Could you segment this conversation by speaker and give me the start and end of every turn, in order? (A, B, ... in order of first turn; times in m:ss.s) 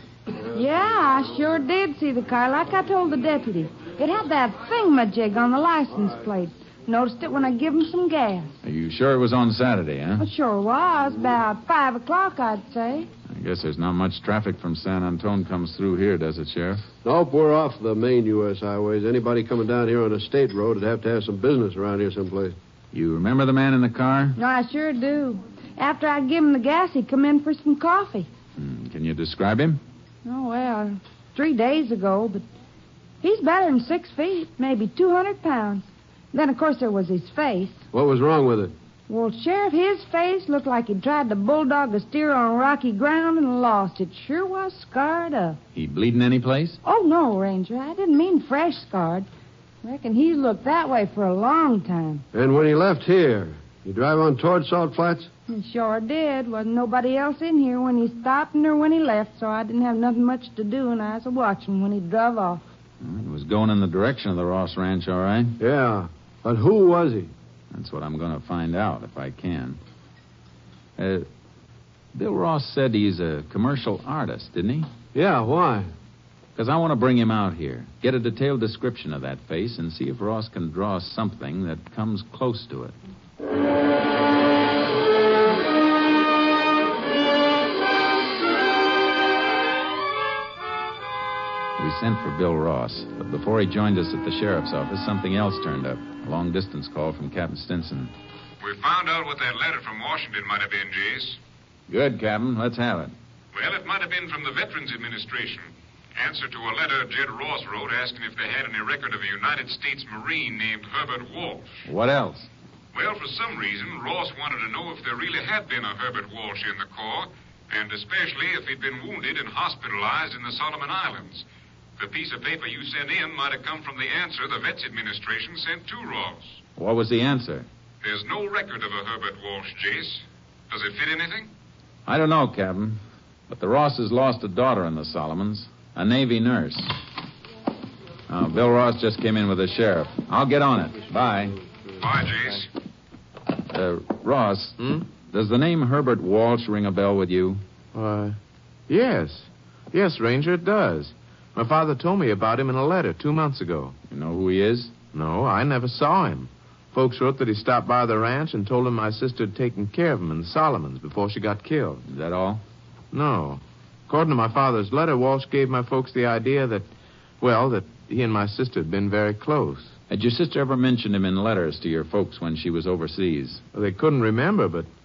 0:00.5-0:08.5 A
0:08.6-0:10.2 B
0:10.2-0:13.1 A
0:13.3-0:16.8 B
0:17.0-0:22.6 C
0:22.9-0:24.4 B
0:24.4-0:28.3 A
0:28.6-0:29.8 B
0:30.2-0:32.4 A
0:33.2-0:37.8 A
0:37.9-0:38.7 C
0:39.1-0:45.6 A
0:45.7-0:46.8 B
0:46.8-0:49.3 A
0:49.8-0:52.2 A
0:52.3-0:55.3 C
0:55.5-1:02.6 A
1:03.0-1:05.5 B
1:05.6-1:07.3 C
1:07.7-1:09.8 B
1:11.0-1:11.3 B
1:12.1-1:14.9 B
1:15.1-1:15.9 C
1:16.6-1:22.9 B
1:31.8-1:38.1 B
1:38.6-1:41.4 D
1:41.9-1:43.1 B
1:43.5-1:51.8 D
1:51.9-1:52.5 B
1:52.9-2:01.4 D
2:02.0-2:06.6 D
2:06.8-2:07.7 B
2:08.0-2:11.5 D
2:12.0-2:16.9 B
2:18.3-2:21.6 B
2:22.0-2:22.7 D
2:23.7-2:27.6 B
2:27.9-2:28.4 E
2:28.9-2:34.0 E
2:34.1-2:34.9 B
2:35.1-2:42.0 E
2:42.0-2:42.6 B
2:43.1-2:46.9 E
2:47.4-2:49.9 E
2:50.1-2:53.6 B
2:53.7-2:54.9 E